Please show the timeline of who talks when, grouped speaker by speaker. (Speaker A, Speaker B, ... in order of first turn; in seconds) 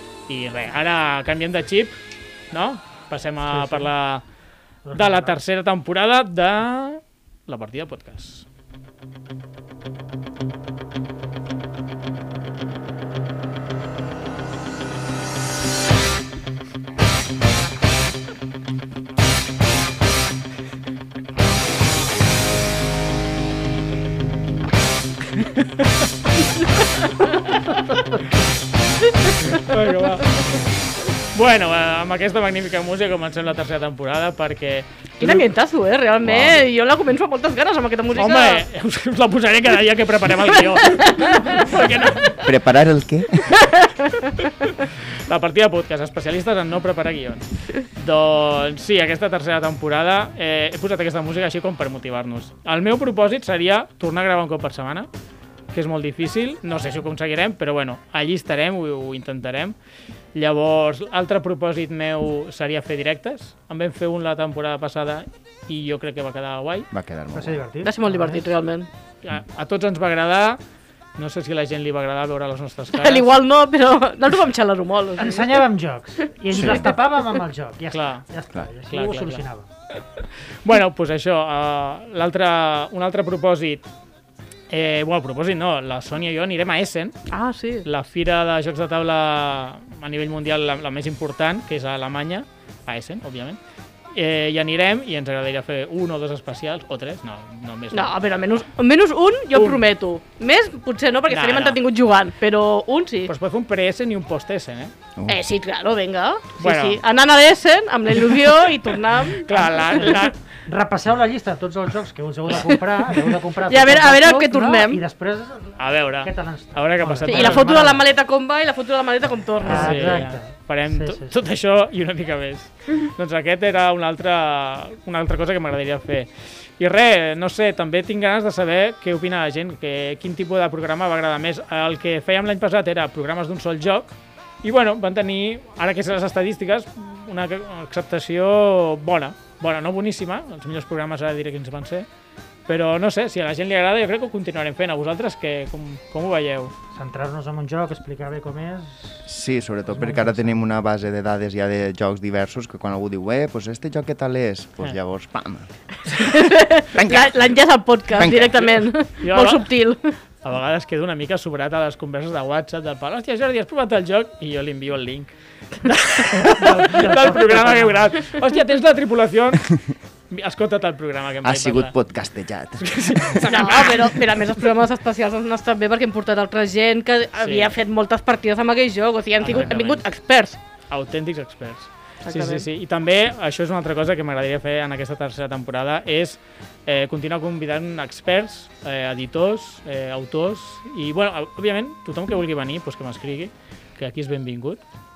Speaker A: 0.3-2.0, 2.5-4.3, 4.9-8.5, 29.6-30.5, 31.3-35.5, 38.2-42.4, 45.2-55.1, 55.7-59.8, 60.3-66.9, 69.2-70.6, 71.2-73.3, 77.9-78.3, 78.8-83.9, 84.7-87.3, 87.8-93.6, 94.1-98.2, 99.5-99.8, 101.3-101.8, 103.3-104.9, 106.6-107.0, 109.5-110.3, 115.8-117.7, 119.6-142.1, 142.7-146.7, 159.2-171.9, 172.8-174.2, 177.4-177.7, 179.4-180.2, 180.9-194.8
Speaker B: 3.5-3.9, 4.8-5.3, 67.3-68.5, 75.2-79.7, 110.7-118.1, 119.6-121.3, 146.9-149.3, 149.9-150.6, 166.5-168.1
Speaker C: 29.1-30.1, 35.2-38.7, 40.7-42.0, 43.5-44.5, 67.8-68.9, 73.0-75.7, 76.5-77.3, 87.3-87.9, 97.9-103.3, 105.3-110.3, 113.7-115.0, 117.2-120.3, 156.2-160.2, 173.5-180.6, 182.2-182.7
Speaker D: 36.2-36.6, 42.4-43.5, 66.9-67.7, 76.5-76.8, 149.3-155.7, 156.9-158.9, 171.4-173.5